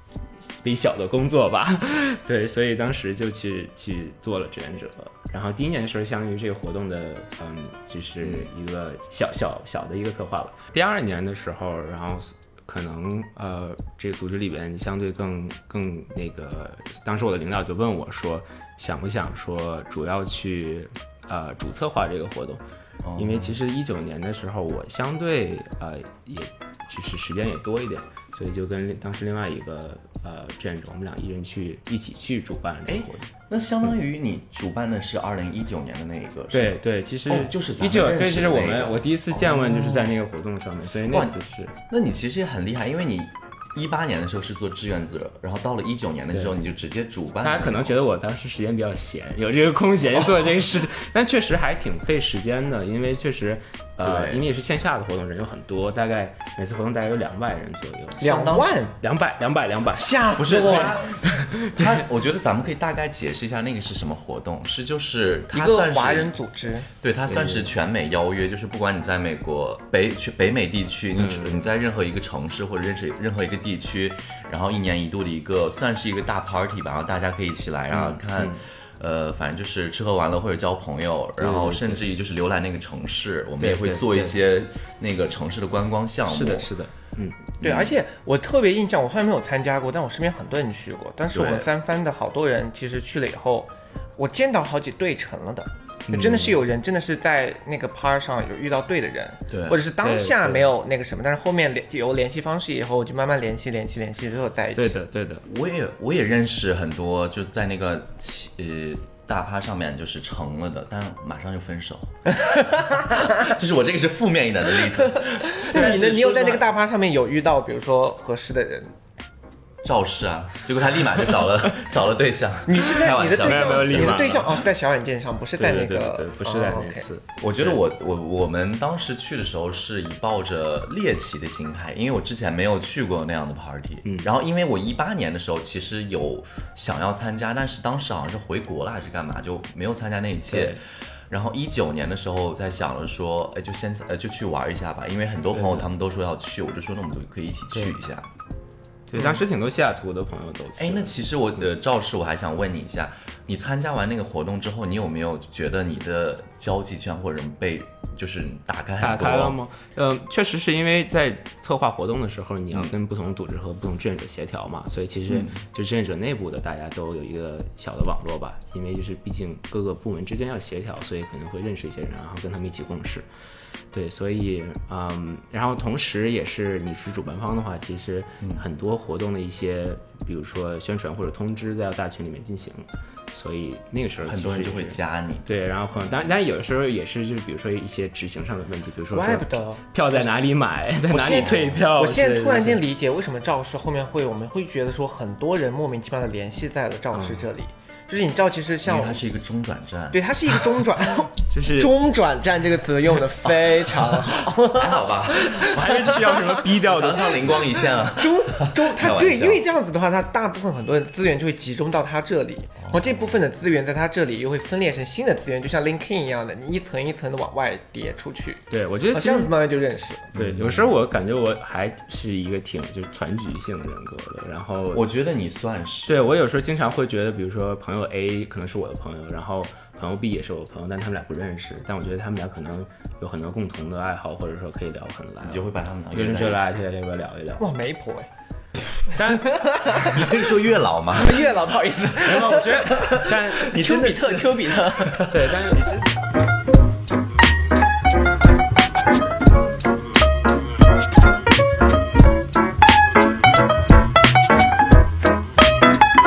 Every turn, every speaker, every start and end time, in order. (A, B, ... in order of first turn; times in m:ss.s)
0:00.6-0:22.6 A
0:08.2-0:08.5 B
0:23.0-0:23.6 B
0:23.2-0:33.3 A
0:32.9-0:36.8 B
0:36.5-0:41.7 A
0:37.3-0:40.1 B
0:41.1-0:48.0 B
0:47.4-1:02.0 A
0:54.0-0:54.4 B
0:58.2-0:59.0 C
0:58.2-0:58.7 B
1:00.0-1:01.1 C
1:00.4-1:01.2 B
1:01.7-1:06.3 B
1:05.5-1:06.9 C
1:07.0-1:26.7 B
1:07.3-1:07.7 A
1:11.2-1:11.7 A
1:17.9-1:18.6 A
1:21.4-1:22.1 A
1:23.6-1:24.4 A
1:26.3-1:27.5 A
1:27.6-1:27.9 B
1:27.6-1:45.0 C
1:31.3-1:31.6 B
1:36.1-1:36.6 A
1:39.5-1:39.8 B
1:40.0-1:40.7 A
1:44.7-1:45.4 A
1:45.4-1:52.1 B
1:52.3-1:53.3 C
1:53.0-1:56.6 B
1:55.1-1:58.9 C
1:59.8-2:04.4 B
2:02.6-2:07.1 C
2:03.1-2:04.6 A
2:05.6-2:07.8 A
2:07.4-2:20.8 B
2:20.5-2:20.8 A
2:21.3-2:28.3 B
2:25.5-2:25.9 A
2:29.1-2:31.2 A
2:30.8-2:39.6 B
2:39.0-2:53.2 A
2:45.3-2:45.6 B
2:53.9-3:12.8 A
3:04.2-3:05.5 B
3:09.1-3:10.2 C
3:11.1-3:19.2 C
3:11.2-3:11.8 B
3:17.1-3:17.5 A
3:18.8-3:20.3 B
3:20.1-3:26.6 C
3:21.5-3:22.0 A
3:24.6-3:29.6 B
3:25.5-3:27.8 A
3:28.1-3:40.3 C
3:38.7-3:39.5 A
3:40.3-3:40.9 B
3:40.3-3:45.0 A
3:44.9-3:46.2 B
3:46.1-3:57.6 A
3:55.4-3:56.7 B
3:57.6-3:58.3 C
3:59.1-3:59.6 A
3:59.2-4:00.4 C
4:00.0-4:01.5 B
4:01.1-4:05.3 C
4:02.2-4:04.1 A
4:03.5-4:05.6 B
4:05.3-4:06.0 A